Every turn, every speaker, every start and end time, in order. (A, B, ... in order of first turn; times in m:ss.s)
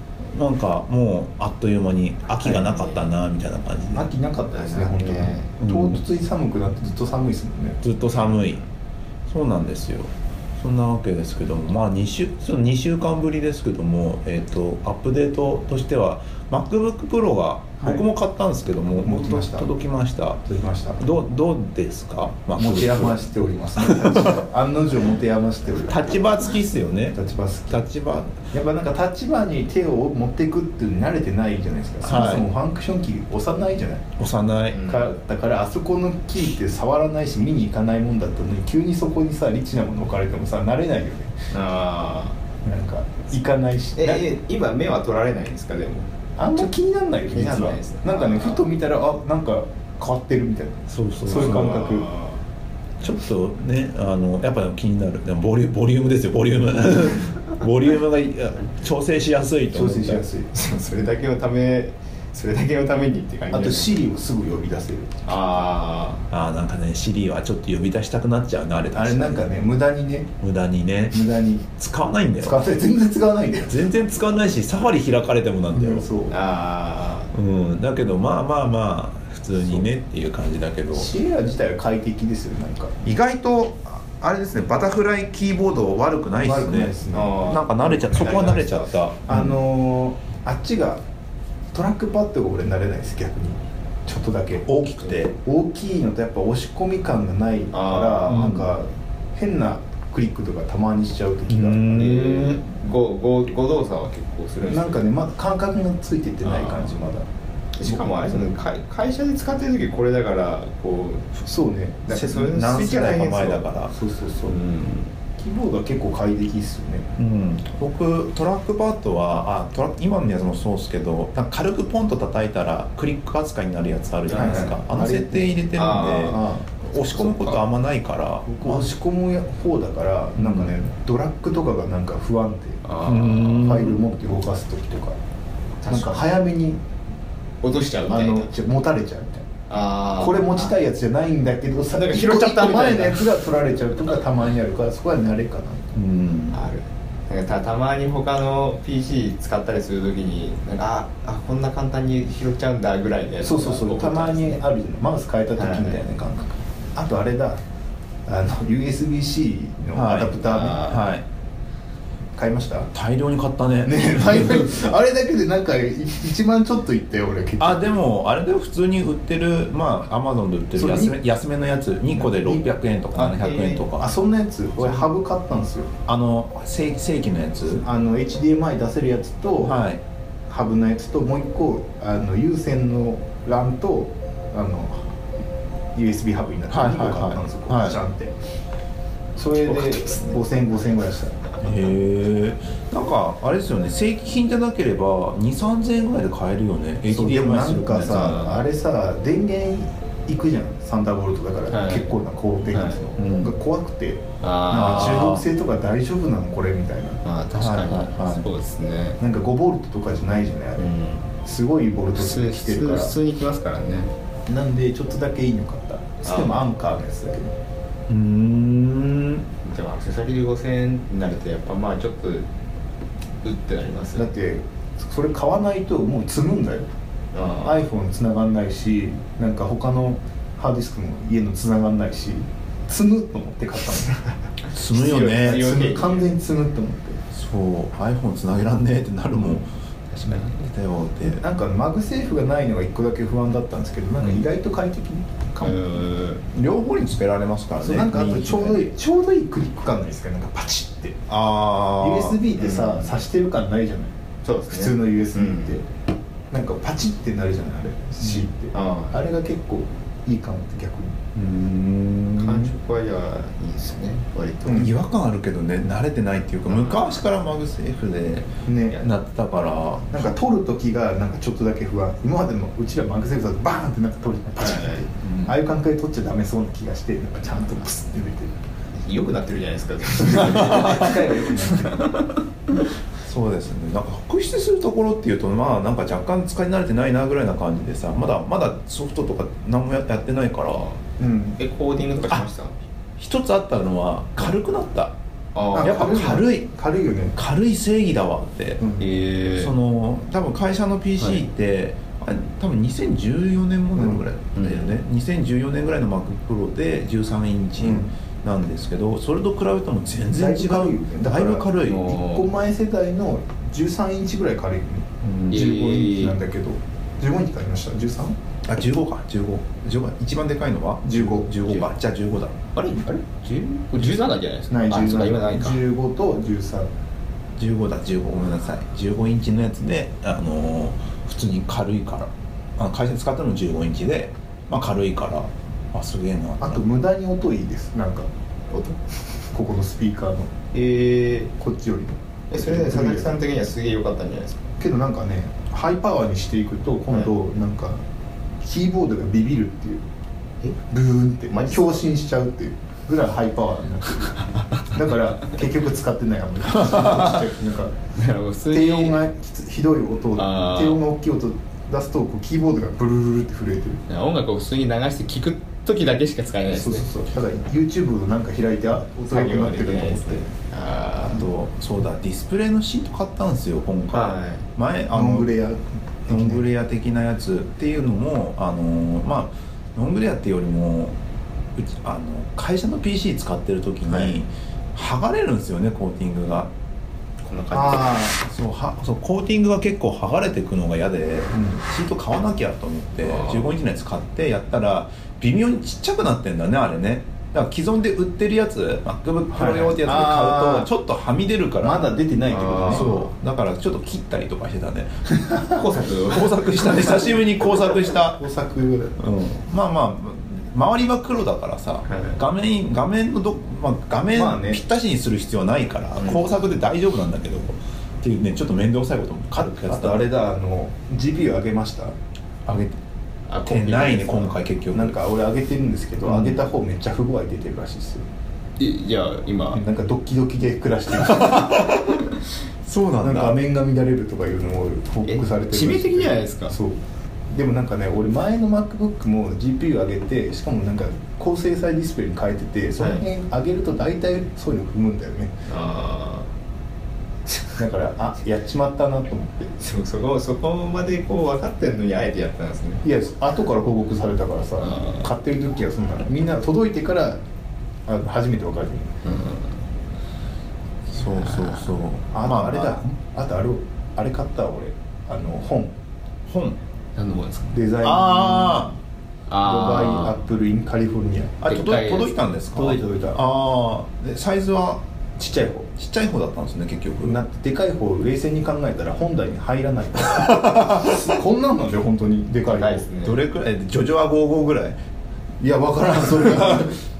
0:00.3-0:04.1 A
0:02.4-0:03.0 B
0:03.9-0:07.8 C
0:04.5-0:05.5 B
0:05.6-0:06.0 A
0:07.8-0:08.6 A
0:08.2-0:08.6 B
0:09.3-0:20.4 A
0:19.0-0:19.7 C
0:20.4-0:21.0 C
0:21.0-0:23.2 A
0:22.6-0:26.5 C
0:23.8-0:24.3 A
0:25.9-0:27.2 A
0:27.1-0:27.8 C
0:27.7-0:28.4 A
0:28.5-0:34.0 C
0:32.0-0:32.4 A
0:34.2-0:34.8 A
0:34.7-0:35.2 B
0:34.9-0:41.4 C
0:41.5-0:42.4 B
0:42.6-0:44.3 C
0:44.0-0:46.7 B
0:46.4-0:52.1 C
0:47.3-0:48.7 B
0:50.9-0:51.8 A
0:51.3-0:52.4 B
0:53.0-1:00.2 A
0:59.7-1:00.5 C
1:00.5-1:03.9 B
1:03.5-1:05.2 C
1:05.2-1:06.3 B
1:06.3-1:09.5 A
1:08.9-1:10.3 C
1:10.4-1:12.6 A
1:11.1-1:11.6 C
1:12.4-1:13.8 C
1:13.7-1:16.0 A
1:15.7-1:16.4 C
1:16.3-1:17.3 B
1:17.3-1:21.1 A
1:20.9-1:22.9 C
1:23.0-1:29.6 A
1:26.4-1:28.6 C
1:27.1-1:29.0 B
1:29.3-1:31.0 C
1:31.7-1:34.8 C
1:34.6-1:35.4 A
1:35.3-1:42.0 C
1:37.7-1:38.5 B
1:38.3-1:38.7 A
1:41.5-1:42.6 A
1:41.9-1:45.1 B
1:44.7-1:47.2 C
1:46.4-1:47.1 B
1:47.8-1:51.4 B
1:47.8-1:48.4 C
1:51.4-1:52.1 C
1:52.0-1:53.7 B
1:52.1-1:53.9 A
1:53.9-1:54.6 C
1:54.4-1:55.2 B
1:55.4-1:57.1 C
1:57.2-2:08.9 A
2:04.3-2:04.8 B
2:04.3-2:07.6 C
2:05.7-2:06.5 B
2:08.5-2:12.8 C
2:10.4-2:10.7 A
2:12.8-2:13.9 B
2:13.0-2:14.0 A
2:13.5-2:15.2 C
2:15.8-2:16.3 B
2:15.9-2:16.8 C
2:17.6-2:18.5 B
2:18.1-2:19.5 C
2:19.7-2:20.8 B
2:20.2-2:25.9 C
2:21.9-2:23.4 B
2:25.9-2:26.6 A
2:26.5-2:34.6 B
2:33.4-2:37.6 C
2:35.5-2:36.0 B
2:38.2-2:41.0 C
2:39.9-2:41.2 A
2:40.6-2:40.9 B
2:42.3-2:42.9 C
2:42.9-2:44.7 A
2:43.8-2:47.9 C
2:47.6-2:54.1 A
2:50.8-2:51.2 C
2:52.1-2:55.9 C
2:54.8-2:55.1 A
2:56.1-2:57.8 A
2:57.8-2:59.8 C
2:59.6-3:00.0 A
3:00.5-3:05.0 C
3:05.9-3:08.3 C
3:06.7-3:08.0 A
3:09.4-3:11.8 C
3:11.6-3:18.5 A
3:17.1-3:27.2 C
3:18.1-3:18.6 B
3:21.7-3:22.1 B
3:22.7-3:23.0 B
3:23.2-3:23.5 A
3:24.4-3:25.4 B
3:24.7-3:25.4 A
3:27.2-3:29.2 B
3:27.6-3:28.5 A
3:29.2-3:30.9 C
3:30.8-3:31.3 B
3:31.4-3:33.1 C
3:32.1-3:34.1 B
3:34.5-3:37.5 C
3:36.2-3:36.6 B
3:38.1-3:39.4 A
3:39.6-3:42.5 B
3:43.4-3:44.3 B
3:44.1-3:46.9 C
3:47.3-3:47.8 B
3:47.6-3:54.2 C
3:54.7-3:55.7 A
3:54.9-3:56.3 B
3:55.5-3:57.2 C
3:57.3-3:59.7 A
4:00.2-4:01.4 A
4:00.2-4:00.5 B
4:01.2-4:05.9 C
4:05.6-4:06.4 B
4:06.5-4:08.9 A
4:07.8-4:11.2 C
4:11.3-4:12.4 A
4:12.0-4:14.1 C
4:12.6-4:13.1 B
4:14.4-4:15.8 B
4:14.7-4:15.8 C
4:16.5-4:21.2 C
4:18.2-4:19.2 B
4:21.3-4:22.7 A
4:22.4-4:24.9 B
4:24.6-4:24.9 C
4:24.7-4:30.3 A
4:26.7-4:27.2 B
4:28.6-4:29.0 C
4:30.1-4:38.6 C
4:34.6-4:35.1 B
4:35.2-4:35.5 A
4:38.9-4:42.3 B
4:40.2-4:42.1 C
4:40.7-4:41.0 A
4:43.2-4:50.9 A
4:51.2-4:51.6 C
4:51.6-4:52.8 B
4:53.2-4:55.2 A
4:55.5-4:56.0 B
4:55.7-4:56.7 A
4:55.8-4:57.4 C
4:57.3-4:58.8 A
4:58.8-4:59.1 C
4:59.0-4:59.7 B
4:59.6-5:12.2 A
5:01.2-5:01.4 B
5:04.0-5:04.2 C
5:04.6-5:05.0 B
5:07.8-5:08.1 C
5:10.3-5:18.4 C
5:11.8-5:12.5 B
5:15.2-5:15.6 A
5:15.5-5:16.4 B
5:18.6-5:22.6 A
5:21.1-5:21.5 C
5:22.7-5:25.8 B
5:24.7-5:26.9 C
5:27.6-5:36.8 A
5:36.6-5:38.3 C
5:38.7-5:39.0 B
5:39.5-5:40.5 C
5:40.7-5:41.5 B
5:41.6-5:43.4 C
5:42.5-5:44.7 B
5:44.8-5:48.0 C
5:48.6-5:50.0 C
5:50.9-5:58.0 C
5:51.5-5:52.0 B
5:54.4-5:55.0 B
5:58.1-5:59.2 B
5:58.7-6:04.0 C
6:00.3-6:01.0 B
6:04.1-6:07.1 B
6:06.7-6:10.4 C
6:09.3-6:11.5 B
6:11.3-6:15.5 A
6:14.1-6:14.6 B
6:15.1-6:16.6 C
6:16.3-6:21.2 A
6:21.8-6:26.7 A
6:24.1-6:24.4 B
6:27.4-6:28.2 B
6:27.7-6:28.4 C
6:28.4-6:42.1 A
6:31.5-6:31.8 C
6:33.2-6:33.7 B
6:39.5-6:40.9 C
6:41.8-6:43.2 C
6:42.5-6:43.1 B
6:42.8-6:48.4 A
6:45.6-6:47.2 B
6:48.3-6:49.2 C
6:49.2-7:00.3 A
6:52.1-6:52.4 B
6:54.3-6:54.8 C
6:56.2-6:56.5 B
6:59.8-7:02.1 C
7:02.6-7:03.0 C
7:03.5-7:04.6 B
7:03.7-7:05.2 A
7:04.9-7:08.2 C
7:06.3-7:06.6 A
7:08.8-7:09.8 B
7:09.7-7:12.0 C
7:11.3-7:12.2 A
7:12.8-7:13.6 A
7:13.2-7:17.0 C
7:15.2-7:16.8 B
7:17.5-7:25.5 C
7:23.0-7:23.2 B
7:25.7-7:26.5 B
7:27.5-7:27.8 B
7:27.8-7:29.7 C
7:29.8-7:33.0 B
7:33.0-7:37.4 C
7:34.8-7:35.3 B
7:38.0-7:39.2 C
7:39.2-7:39.8 B
7:41.1-7:43.0 A
7:41.3-7:41.9 B
7:42.3-7:45.9 C
7:46.5-7:46.8 A
7:47.2-7:47.8 B
7:47.7-7:48.9 C
7:48.0-7:48.9 A
7:49.5-7:50.4 B
7:49.6-7:51.6 C
7:51.6-7:55.0 A
7:51.6-7:52.4 B
7:52.7-7:53.4 C
7:55.4-7:55.9 C
7:55.9-7:57.4 A
7:57.2-8:03.1 C
8:00.6-8:01.2 A
8:02.6-8:03.4 B
8:03.2-8:05.0 A
8:05.6-8:07.0 C